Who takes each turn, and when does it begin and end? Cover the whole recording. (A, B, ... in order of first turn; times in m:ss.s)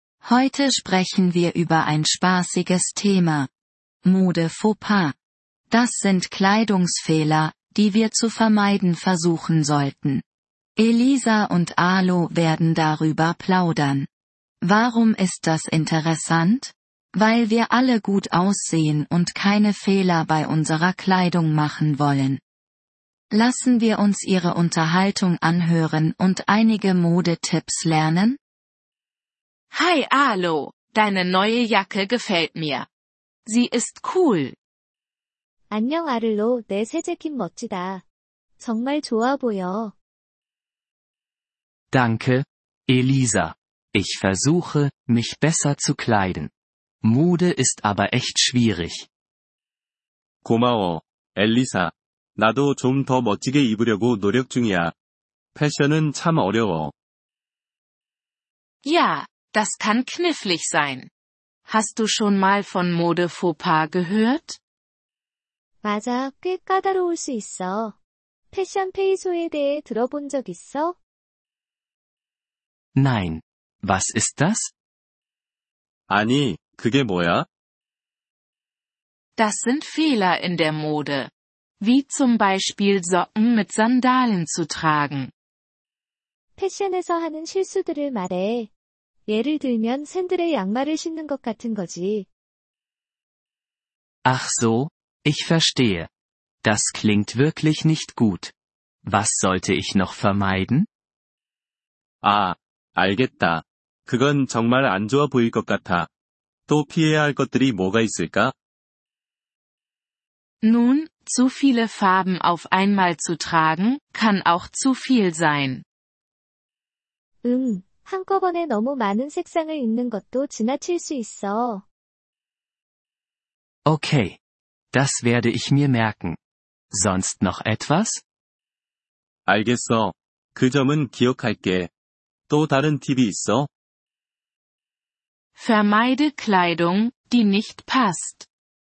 0:00.2-0:03.5 A
0:04.0-0:05.2 A
0:05.7-0:10.2 A
0:10.8-0:14.1 A
0:14.6-0:22.4 A
0:23.3-0:28.4 A
0:29.7-0:32.9 B
0:33.4-0:34.6 B
0:35.7-0:38.0 C
0:38.6-0:39.9 C
0:41.9-0:46.5 D
0:47.0-0:49.1 D
0:50.4-0:54.9 E
0:55.6-0:56.9 E
0:58.8-1:01.1 B
1:01.7-1:04.6 B
1:05.8-1:08.0 C
1:08.5-1:11.0 C
1:13.0-1:14.7 D
1:16.1-1:17.5 E
1:19.4-1:25.3 B
1:26.6-1:28.7 C
1:29.3-1:32.3 C
1:34.2-1:36.1 D
1:36.6-1:38.5 D
1:39.0-1:40.9 D
1:42.2-1:46.1 E
1:46.7-1:48.6 E
1:50.6-1:55.8 B
1:57.4-2:01.8 C
2:03.9-2:04.4 D
2:04.9-2:06.4 D
2:06.9-2:08.2 D
2:09.4-2:11.9 E
2:12.5-2:13.7 E
2:15.6-2:18.5 B